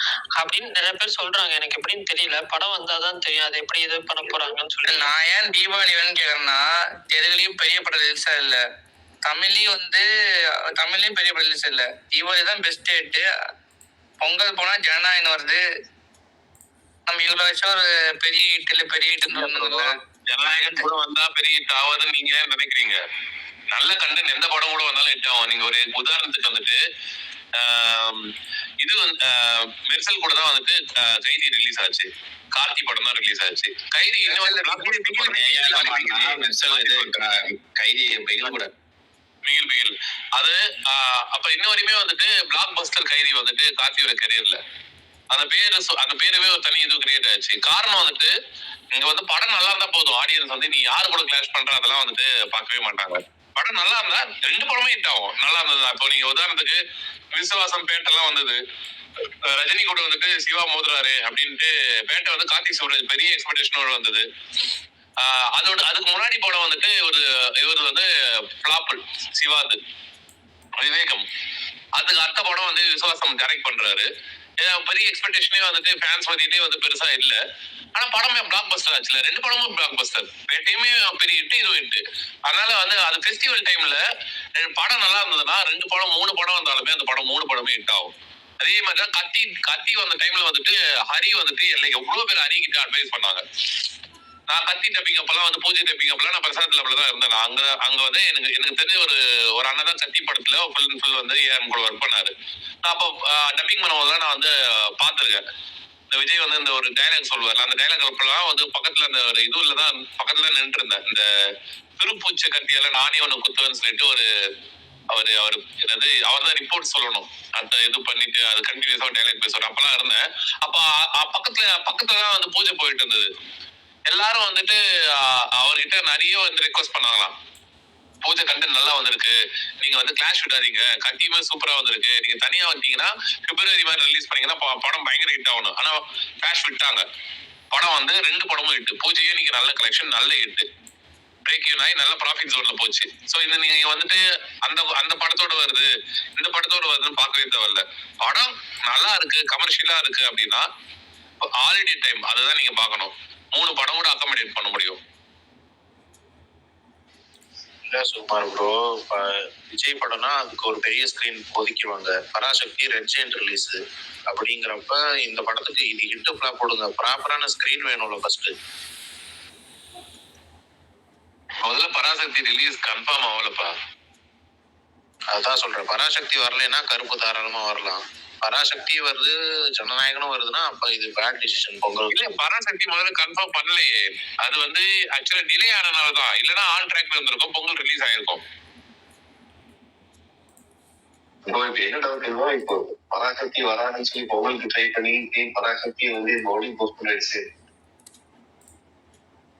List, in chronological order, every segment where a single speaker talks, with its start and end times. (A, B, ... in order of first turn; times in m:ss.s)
0:00.4-0:05.1 A
0:04.8-0:08.6 B
0:09.2-0:10.0 B
0:10.8-0:13.2 B
0:14.2-0:15.6 B
0:17.1-0:20.8 B
0:19.3-0:23.0 C
0:23.7-0:26.8 C
0:27.5-0:37.2 C
0:34.2-0:38.7 D
0:39.4-0:44.6 C
0:45.3-0:48.3 C
0:48.9-0:56.8 C
0:57.3-0:58.6 C
0:59.4-1:04.2 C
1:05.2-1:08.0 C
1:08.6-1:09.8 C
1:10.8-1:11.2 C
1:12.0-1:17.4 C
1:17.9-1:24.0 C
1:24.6-1:33.4 C
1:34.5-1:42.3 C
1:42.8-1:45.4 C
1:46.1-1:51.2 C
1:52.0-1:54.3 C
1:55.1-2:03.3 C
2:04.1-2:07.3 C
2:08.2-2:17.0 C
2:17.7-2:20.7 C
2:21.4-2:30.7 C
2:31.4-2:35.0 C
2:37.8-2:48.5 E
2:51.6-2:53.7 C
2:55.3-3:02.2 E
3:02.1-3:08.4 C
3:11.5-3:17.4 F